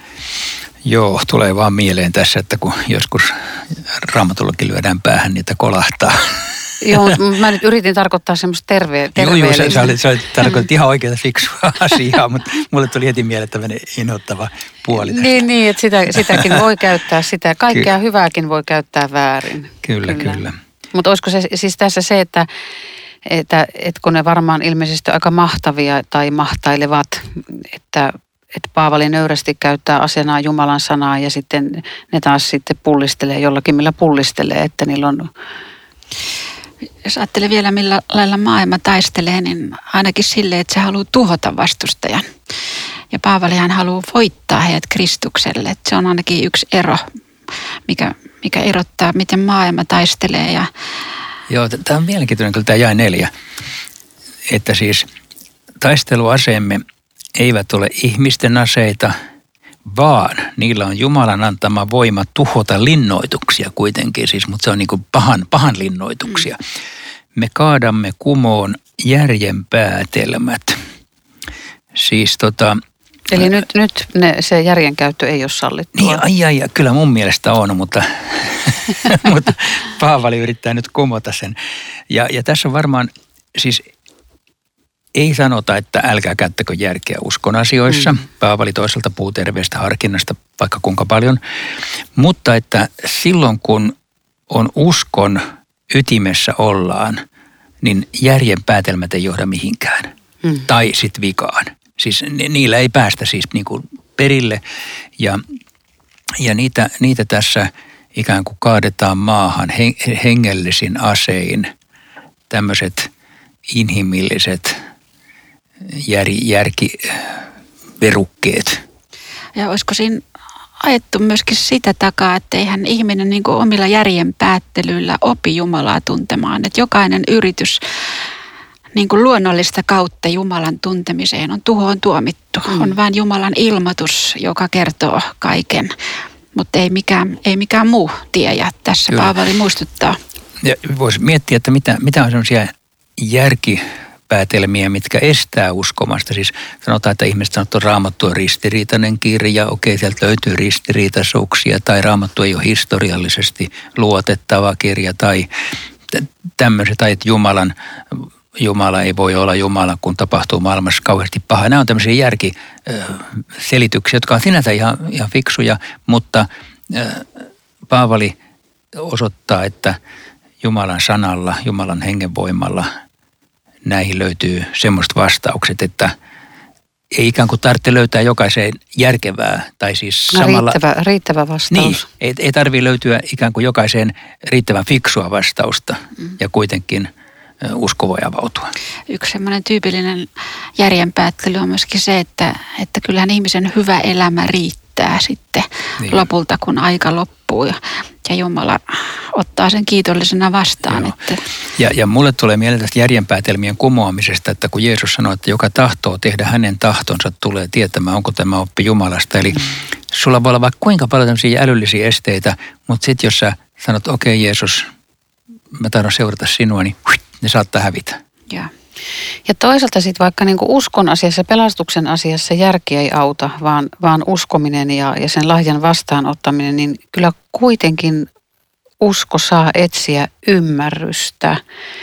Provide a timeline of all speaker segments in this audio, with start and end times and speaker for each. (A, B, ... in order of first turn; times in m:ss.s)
0:00.8-0:07.2 A
0:06.8-0:09.8 B
0:09.1-0:15.5 A
0:15.0-0:22.5 B
0:16.1-0:16.6 A
0:19.8-0:20.6 A
0:23.2-0:35.3 B
0:37.0-0:42.3 C
0:43.1-0:47.1 C
0:47.9-0:50.7 C
0:51.5-0:53.3 A
0:54.5-0:55.1 A
0:55.8-0:56.8 A
0:57.4-0:59.1 A
0:59.8-1:06.6 A
1:07.3-1:10.8 A
1:11.9-1:12.8 A
1:13.3-1:16.2 B
1:15.9-1:21.6 A
1:22.1-1:23.8 A
1:25.1-1:31.4 A
1:32.2-1:33.9 A
1:34.5-1:37.2 A
1:37.8-1:40.1 A
1:40.6-1:44.6 A
1:46.4-1:51.7 A
1:52.5-1:53.1 A
1:53.7-1:54.8 A
1:55.9-1:57.4 A
1:58.0-1:58.8 A
1:59.6-2:00.2 C
2:00.8-2:07.8 C
2:08.9-2:15.9 C
2:12.7-2:13.0 B
2:16.6-2:20.2 C
2:20.6-2:35.5 A
2:36.1-2:48.4 A
2:49.0-2:50.0 A
2:50.6-2:52.9 A
2:53.8-2:56.1 A
2:57.1-3:00.8 A
3:00.3-3:02.1 B
3:01.7-3:07.1 A
3:07.6-3:08.7 A
3:09.1-3:21.4 C
3:16.0-3:16.2 A
3:20.9-3:21.1 A
3:21.8-3:34.9 A
3:35.7-3:38.2 A
3:39.4-3:48.3 B
3:49.0-3:51.6 B